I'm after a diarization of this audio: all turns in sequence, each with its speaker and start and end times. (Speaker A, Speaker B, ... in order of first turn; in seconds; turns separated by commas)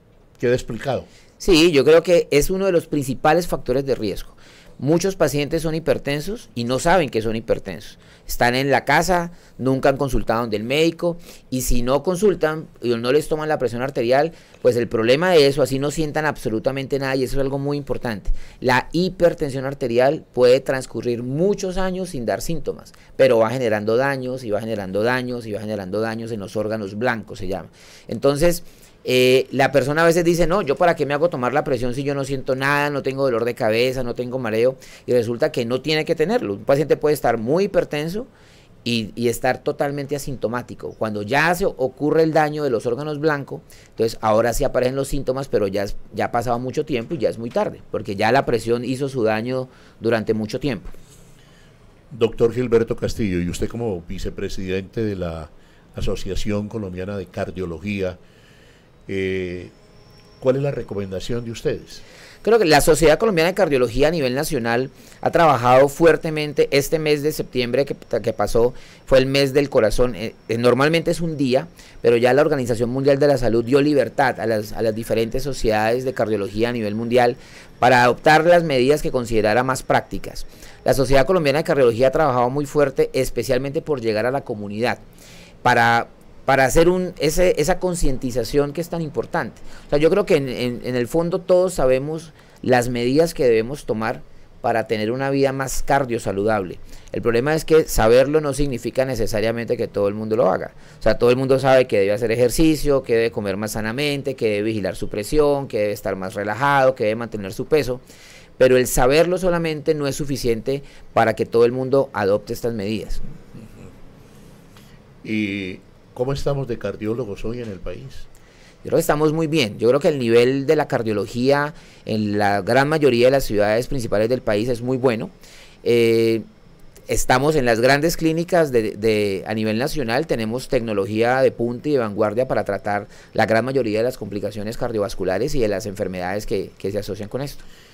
Speaker A: 0.4-1.1, Speaker B: 1.4-38.3, Speaker B: 38.9-50.9, Speaker A: 52.1-58.2, Speaker A: 59.1-59.7, Speaker A: 60.4-62.0, Speaker B: 62.4-85.0, Speaker B: 85.6-108.0, Speaker B: 108.6-113.2, Speaker A: 115.2-118.3, Speaker B: 118.8-126.5, Speaker B: 127.1-137.6